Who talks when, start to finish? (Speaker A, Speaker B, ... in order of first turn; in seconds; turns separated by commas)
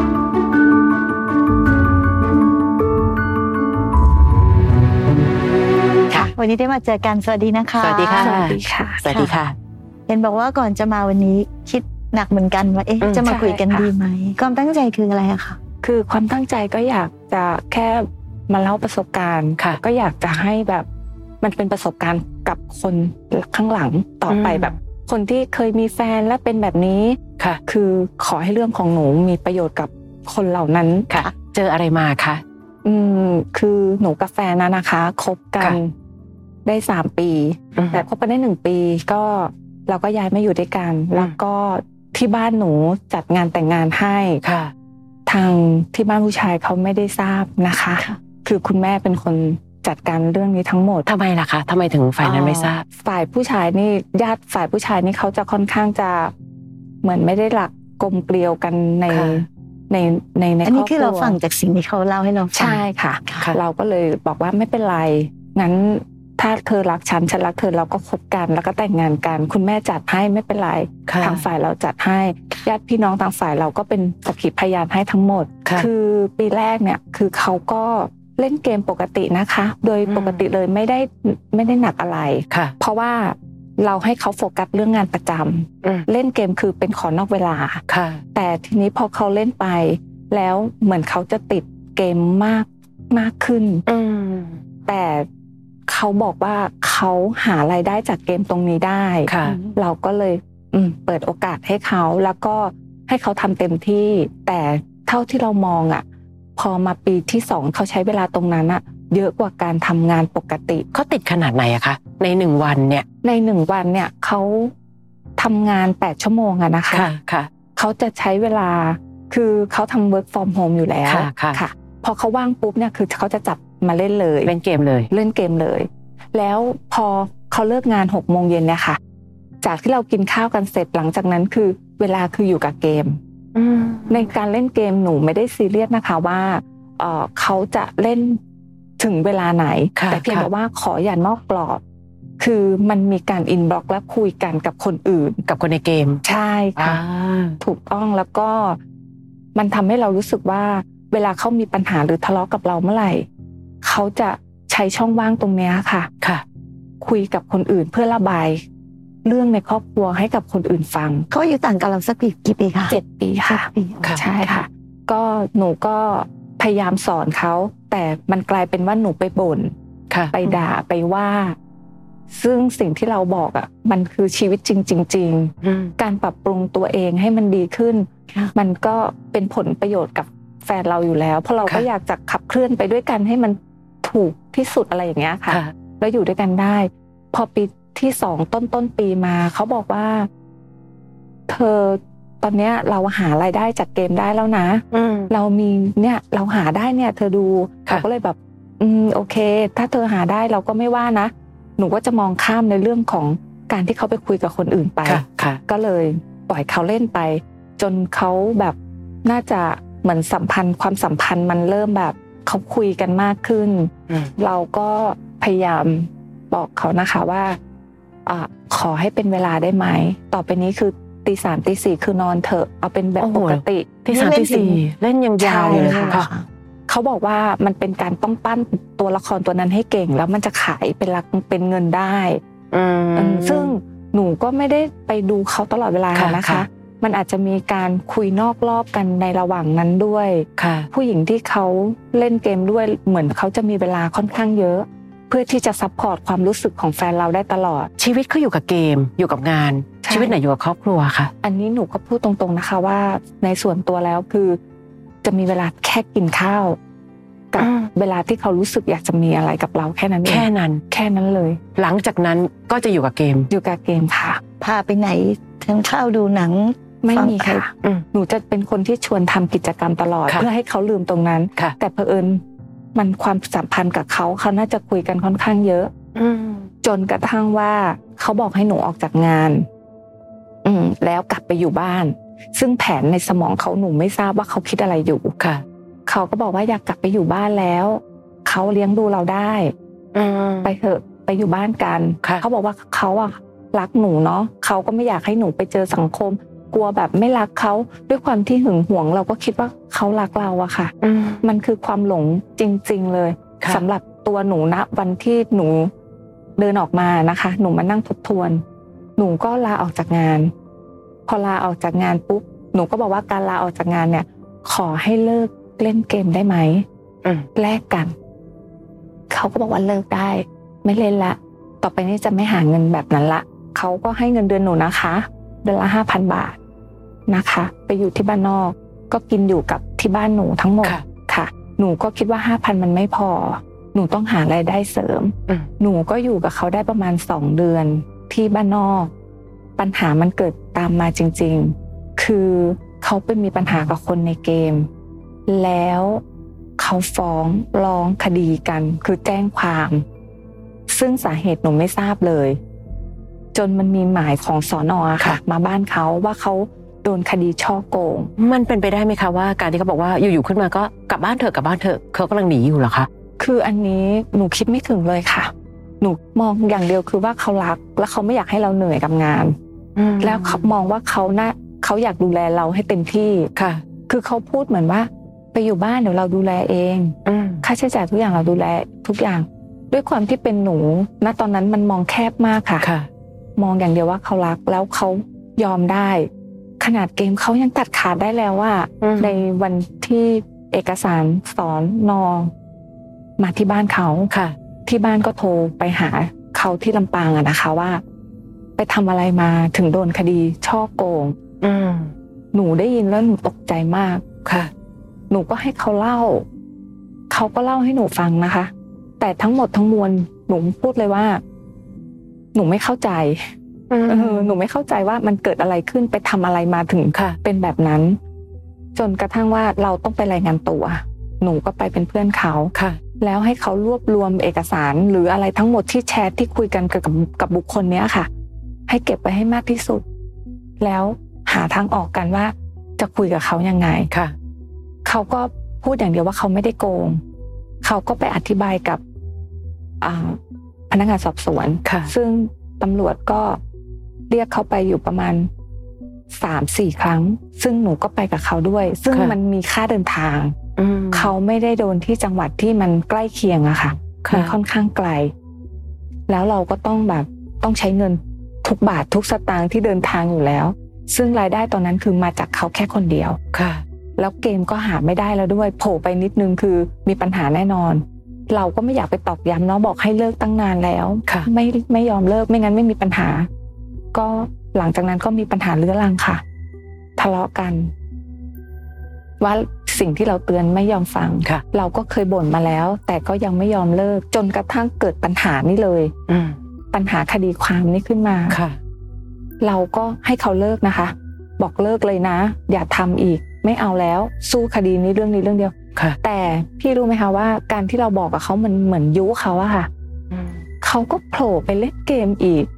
Speaker A: 6.1-8.4, Speaker B: 7.8-9.6, Speaker C: 8.2-9.1, Speaker A: 10.1-15.6, Speaker B: 13.0-13.3, Speaker C: 13.2-13.9, Speaker C: 15.8-20.9, Speaker C: 21.4-31.1, Speaker B: 24.3-24.7, Speaker B: 31.1-32.4, Speaker C: 32.8-35.9, Speaker C: 36.6-44.4, Speaker B: 37.8-38.0, Speaker B: 44.4-44.7, Speaker C: 45.2-51.1, Speaker B: 51.1-52.8, Speaker C: 52.2-56.3, Speaker C: 57.0-61.4, Speaker B: 59.1-59.4, Speaker A: 60.6-63.4, Speaker C: 62.5-87.8, Speaker B: 71.1-71.4, Speaker B: 80.1-80.4, Speaker B: 87.9-88.2, Speaker C: 88.3-93.8, Speaker B: 93.9-94.6, Speaker C: 94.9-95.3, Speaker C: 95.9-106.0, Speaker B: 99.2-99.6, Speaker C: 106.5-110.9, Speaker B: 110.9-113.0, Speaker C: 113.2-114.7, Speaker C: 115.4-117.1, Speaker B: 116.9-117.5, Speaker C: 117.8-124.5, Speaker B: 121.0-121.6, Speaker B: 124.5-125.1, Speaker C: 125.1-129.0, Speaker C: 129.6-133.2, Speaker B: 133.6-134.3, Speaker C: 134.1-138.4, Speaker C: 139.0-141.8, Speaker B: 140.0-140.5, Speaker C: 142.4-145.4, Speaker B: 145.5-146.2, Speaker C: 146.2-147.0, Speaker B: 146.8-147.6, Speaker C: 147.6-148.8, Speaker C: 149.6-153.3, Speaker C: 153.8-156.1, Speaker C: 157.0-158.6, Speaker C: 159.2-161.3, Speaker A: 161.3-164.6, Speaker C: 162.9-169.7, Speaker C: 170.3-171.6, Speaker C: 172.3-190.3, Speaker B: 175.6-175.9, Speaker C: 191.5-217.6, Speaker B: 194.9-195.3, Speaker B: 205.1-205.6, Speaker C: 218.3-224.8, Speaker B: 223.2-226.3, Speaker A: 224.1-224.6, Speaker C: 225.4-226.3, Speaker A: 225.9-226.4, Speaker C: 226.9-232.4, Speaker B: 232.7-233.7, Speaker C: 233.2-247.9, Speaker B: 236.1-236.6, Speaker B: 240.6-240.9, Speaker B: 248.0-251.3, Speaker C: 250.0-250.4, Speaker C: 251.4-254.6, Speaker C: 255.2-256.8, Speaker C: 257.5-261.6, Speaker B: 257.6-257.9, Speaker B: 260.2-260.8, Speaker B: 261.8-263.5, Speaker C: 263.5-264.4, Speaker A: 264.6-267.6, Speaker C: 267.0-272.4, Speaker C: 272.9-275.9, Speaker B: 276.2-276.7, Speaker C: 276.8-279.7, Speaker C: 280.6-285.3, Speaker B: 285.4-285.6, Speaker C: 286.1-289.7, Speaker B: 290.1-290.7, Speaker C: 290.6-305.9, Speaker B: 301.0-301.4, Speaker C: 306.6-308.6, Speaker C: 309.2-310.5, Speaker C: 311.3-316.9, Speaker C: 317.6-318.1, Speaker C: 319.3-326.6, Speaker C: 327.3-339.1, Speaker C: 339.8-344.9, Speaker C: 345.5-346.2, Speaker C: 346.8-350.1, Speaker C: 350.9-352.6, Speaker C: 353.5-358.3, Speaker B: 358.4-363.1, Speaker C: 363.4-369.6, Speaker B: 370.0-370.7, Speaker C: 370.2-373.5, Speaker B: 373.6-373.8, Speaker C: 374.1-382.9, Speaker B: 377.2-377.6, Speaker B: 382.8-383.1, Speaker C: 383.6-392.5, Speaker B: 389.0-389.4, Speaker C: 393.4-394.3, Speaker B: 394.3-394.6, Speaker C: 394.9-398.0, Speaker C: 398.8-401.4, Speaker B: 401.6-402.1, Speaker C: 402.5-404.2, Speaker C: 405.3-406.4, Speaker C: 407.3-411.4, Speaker C: 412.5-413.5, Speaker B: 413.9-414.6, Speaker C: 414.1-418.2, Speaker C: 418.9-428.3, Speaker C: 428.9-430.0, Speaker C: 430.8-434.1, Speaker C: 435.1-437.2, Speaker C: 437.8-439.0, Speaker C: 440.0-440.4, Speaker C: 440.9-443.6, Speaker B: 441.9-442.1, Speaker C: 444.3-445.5, Speaker C: 446.3-450.6, Speaker B: 450.8-451.3, Speaker C: 451.1-455.3, Speaker B: 454.2-454.6, Speaker C: 456.3-463.4, Speaker B: 463.5-463.8, Speaker C: 464.2-473.5, Speaker C: 474.1-476.4, Speaker C: 477.2-477.9, Speaker C: 479.4-486.1, Speaker B: 486.3-486.6, Speaker C: 486.9-488.6, Speaker B: 488.5-488.8, Speaker C: 489.6-499.9, Speaker B: 500.3-500.6, Speaker C: 500.8-502.7